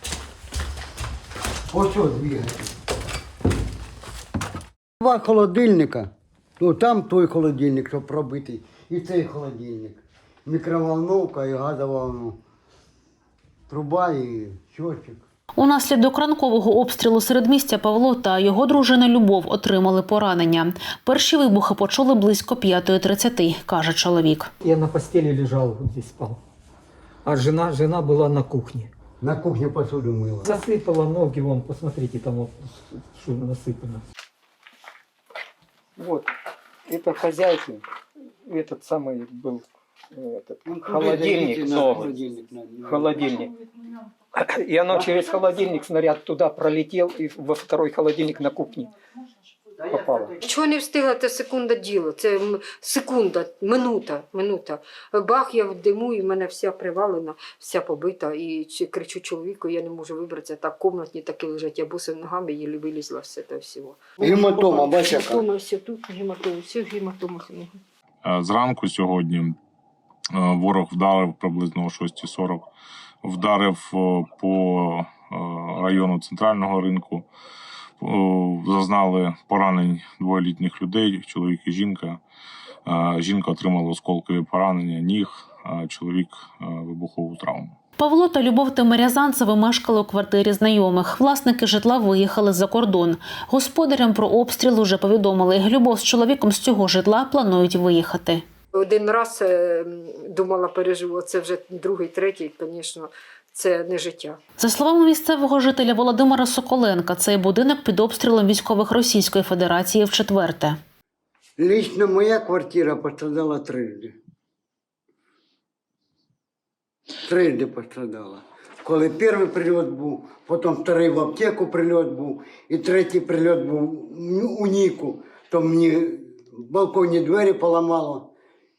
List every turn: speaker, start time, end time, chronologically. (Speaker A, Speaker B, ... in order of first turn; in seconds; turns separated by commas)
Speaker A: 1.7-2.7, Speaker A: 5.0-12.4, Speaker A: 13.7-15.2, Speaker B: 15.6-24.5, Speaker C: 24.6-26.4, Speaker C: 27.2-28.9, Speaker A: 29.2-30.6, Speaker C: 30.4-34.0, Speaker C: 36.0-36.3, Speaker C: 36.9-37.8, Speaker C: 38.4-42.1, Speaker A: 40.6-43.3, Speaker C: 42.8-43.5, Speaker C: 44.3-48.9, Speaker C: 49.9-50.3, Speaker D: 50.4-67.8, Speaker A: 64.2-65.4, Speaker E: 68.2-69.5, Speaker E: 70.3-72.7, Speaker E: 73.2-77.3, Speaker E: 78.0-82.2, Speaker E: 82.8-87.7, Speaker B: 88.0-98.4, Speaker D: 98.7-104.4, Speaker B: 104.6-110.8, Speaker A: 111.6-114.2, Speaker A: 117.2-128.3